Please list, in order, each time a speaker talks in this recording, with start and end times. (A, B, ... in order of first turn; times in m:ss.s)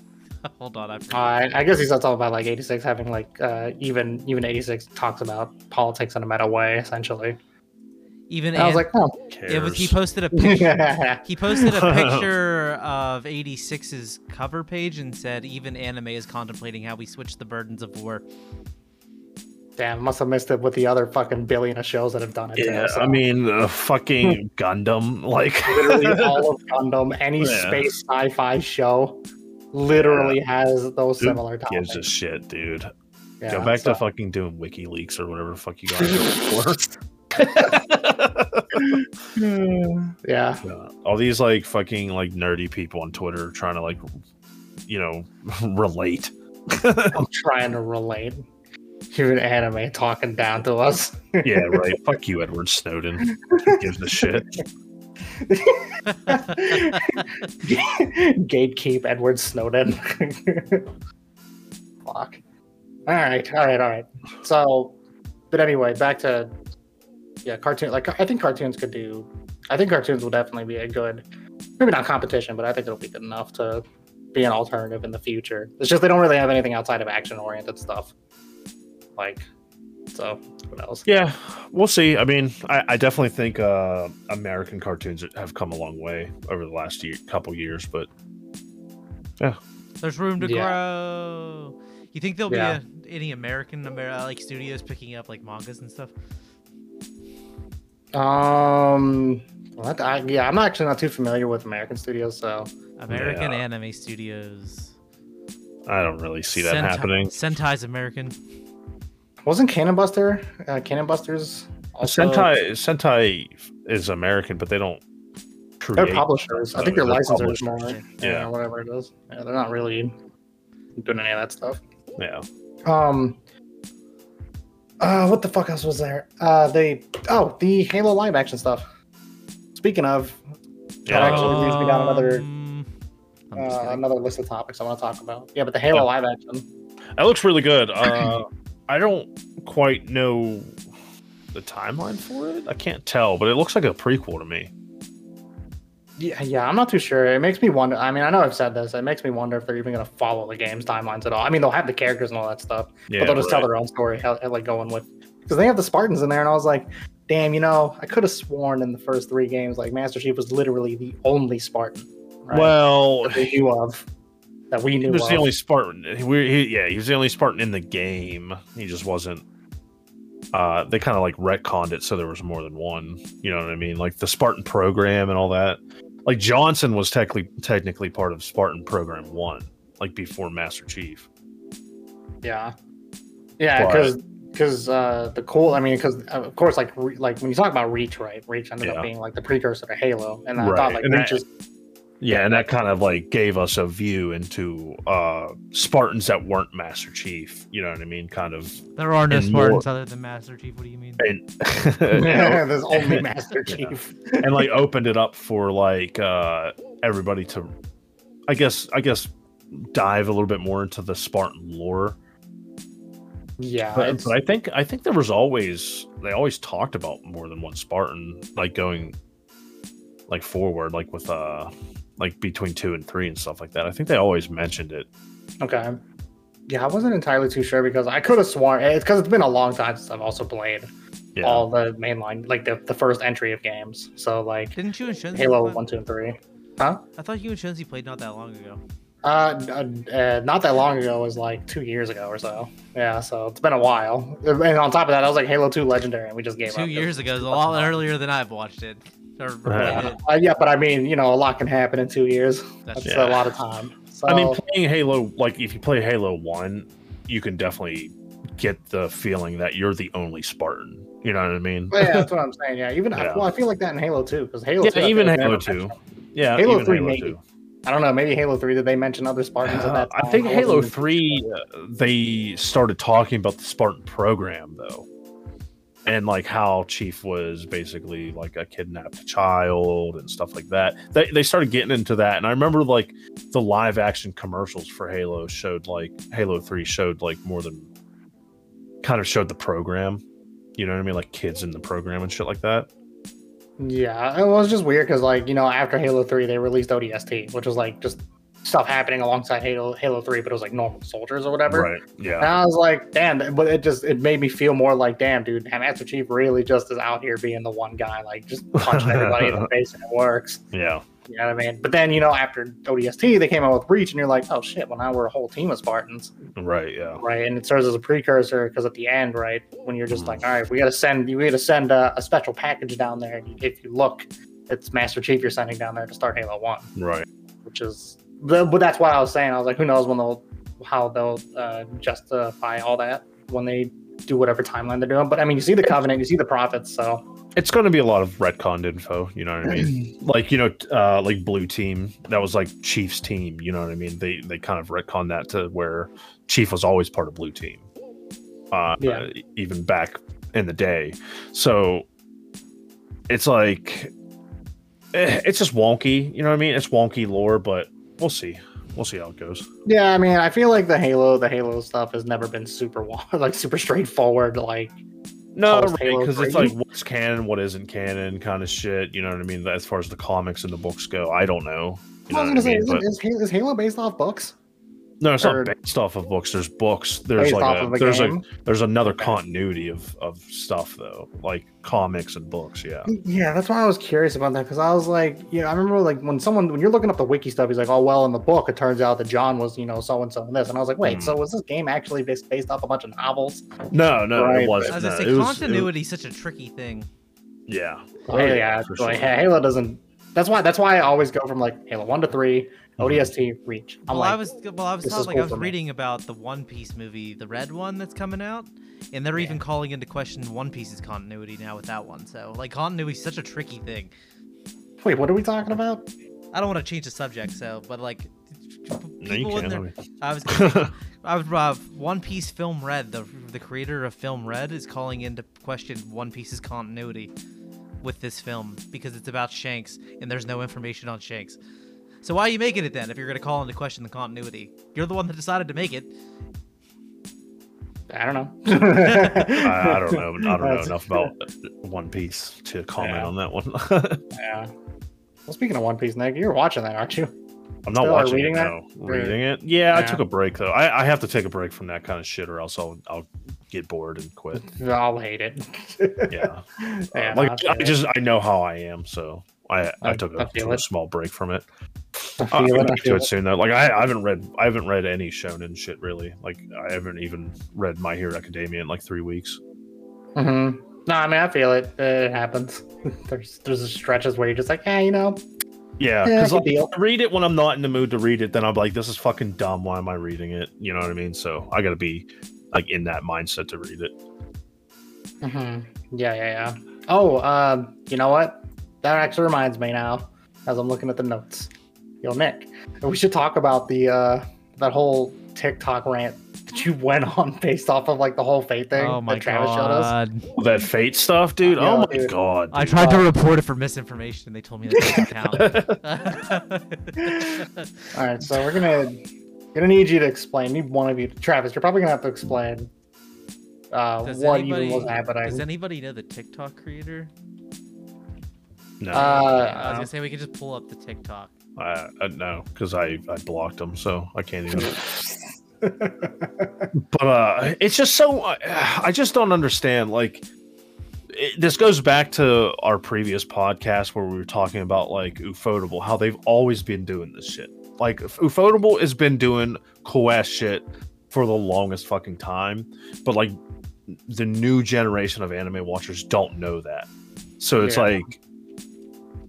0:00.4-0:01.7 A
0:01.1-0:07.4 B
0:08.3-0:08.9 A
0:08.5-0:09.2 B
0:09.3-0:10.0 C
0:09.5-0:18.2 A
0:10.3-0:11.7 B
0:11.7-0:12.3 C
0:19.8-0:23.2 B
0:22.6-0:26.4 C
0:25.6-0:29.2 B
0:27.4-0:27.8 C
0:29.7-0:32.0 B
0:30.0-0:30.4 C
0:31.2-0:32.9 C
0:33.4-0:34.0 B
0:33.5-0:39.0 C
0:36.0-0:36.4 B
0:37.5-0:37.8 B
0:38.7-0:40.6 B
0:40.6-0:44.0 C
0:44.9-0:47.2 C
0:47.1-0:48.4 B
0:49.1-0:51.9 B
0:51.4-0:54.5 C
0:53.2-0:54.3 B
0:55.4-1:00.9 B
1:02.0-1:02.4 B
1:03.1-1:04.9 B
1:05.5-1:06.5 B
1:07.4-1:11.2 B
1:11.8-1:18.1 B
1:19.2-1:19.5 B
1:20.1-1:21.1 B
1:21.0-1:28.1 C
1:30.0-1:36.1 A
1:30.4-1:30.7 B
1:32.5-1:32.8 B
1:38.1-1:42.7 B
1:43.0-1:44.9 A
1:43.1-1:43.6 C
1:45.9-1:47.3 C
1:46.5-1:48.3 A
1:49.4-1:52.5 B
1:52.0-1:55.0 C
1:55.8-1:58.5 C
1:56.0-2:00.1 B
2:01.0-2:01.8 B
2:02.2-2:02.4 C
2:02.8-2:03.4 B
2:05.0-2:08.8 B
2:09.7-2:10.4 B
2:11.0-2:11.8 C
2:11.1-2:12.4 B
2:11.1-2:12.9 A
2:13.5-2:14.0 A
2:13.5-2:16.6 B
2:17.2-2:20.8 C
2:18.1-2:18.3 B
2:21.5-2:24.7 C
2:26.2-2:44.0 B
2:33.1-2:33.7 C
2:42.5-2:43.5 C
2:44.7-2:45.5 B
2:45.0-2:49.4 C
2:50.5-3:01.3 C
3:02.4-3:02.7 B
3:03.6-3:11.4 B
3:03.8-3:04.1 C
3:08.8-3:09.1 C
3:10.6-3:11.4 C
3:12.2-3:19.8 C
3:12.3-3:12.7 B
3:19.0-3:21.2 A
3:21.2-3:27.7 C
3:22.1-3:24.7 B
3:28.5-3:32.2 C
3:33.6-3:34.3 B
3:33.9-3:39.1 C
3:40.3-3:45.1 C
3:45.6-3:46.0 B
3:46.7-3:50.9 B
3:51.4-3:51.6 C
3:51.4-3:54.8 B
3:54.8-3:55.8 A
3:55.3-3:57.0 B
3:57.2-3:58.8 A
3:59.2-4:08.0 B
4:06.7-4:10.2 A
4:09.6-4:10.1 C
4:09.8-4:14.6 B
4:12.9-4:13.2 A
4:13.0-4:13.4 C
4:14.2-4:22.3 C
4:21.9-4:25.9 B
4:23.2-4:23.5 C
4:24.8-4:27.4 C
4:26.6-4:31.4 B
4:29.6-4:35.0 C
4:36.0-4:47.9 C
4:49.0-4:50.2 C
4:50.8-4:52.9 C
4:53.8-5:10.6 B
5:01.7-5:02.5 C
5:08.7-5:09.7 C
5:10.7-5:11.0 C
5:11.2-5:16.3 B
5:16.6-5:17.2 C
5:17.2-5:26.9 B
5:20.1-5:20.4 C
5:27.0-5:27.3 C
5:27.6-5:37.2 B
5:37.6-5:47.8 C
5:39.7-5:40.0 B
5:48.7-5:52.1 C
5:49.0-5:49.3 B
5:53.3-5:54.1 C
5:55.1-5:59.7 C
5:59.8-6:04.9 B
6:05.5-6:13.0 C
6:05.7-6:06.8 B
6:12.3-6:14.5 B
6:15.2-6:23.1 C
6:15.4-6:15.7 B
6:17.4-6:18.4 B
6:19.0-6:19.4 B
6:23.1-6:33.7 B
6:31.0-6:31.4 C
6:33.9-6:35.9 C
6:34.3-6:35.0 B
6:34.9-6:37.1 A
6:37.7-6:39.5 C
6:38.3-6:44.4 B
6:43.0-6:43.3 C
6:44.1-6:54.1 A
6:45.0-6:45.7 B
6:49.3-6:49.6 B
6:55.0-6:56.1 B
6:56.5-7:07.3 A
6:59.2-7:00.0 C
7:00.5-7:00.9 C
7:08.0-7:11.6 A
7:12.2-7:16.1 A
7:18.1-7:21.3 B
7:19.5-7:24.2 C
7:23.0-7:23.3 B
7:24.3-7:24.7 B
7:25.5-7:27.3 B
7:27.8-7:34.7 C
7:28.0-7:29.4 B
7:29.9-7:30.2 B
7:34.5-7:38.0 B
7:36.3-7:41.6 C
7:40.0-7:40.8 B
7:42.3-7:49.6 C
7:42.4-7:43.3 B
7:50.4-7:55.4 B
7:56.0-8:04.1 C
7:56.2-7:56.9 B
8:05.4-8:11.7 B
8:12.2-8:20.1 B
8:18.9-8:20.5 A
8:20.6-8:23.0 C
8:21.7-8:22.3 B
8:22.7-8:27.8 A
8:23.0-8:23.3 B
8:25.5-8:26.0 C
8:27.2-8:27.5 B
8:28.1-8:29.2 B
8:29.7-8:32.9 B
8:33.9-8:35.6 B
8:34.2-8:37.3 A
8:39.0-8:39.4 C
8:39.1-8:40.1 B
8:39.1-8:41.5 A
8:41.8-8:45.1 C
8:44.7-8:46.9 B
8:46.9-8:50.4 C
8:51.3-9:03.5 C
9:04.1-9:08.4 C
9:07.8-9:08.2 B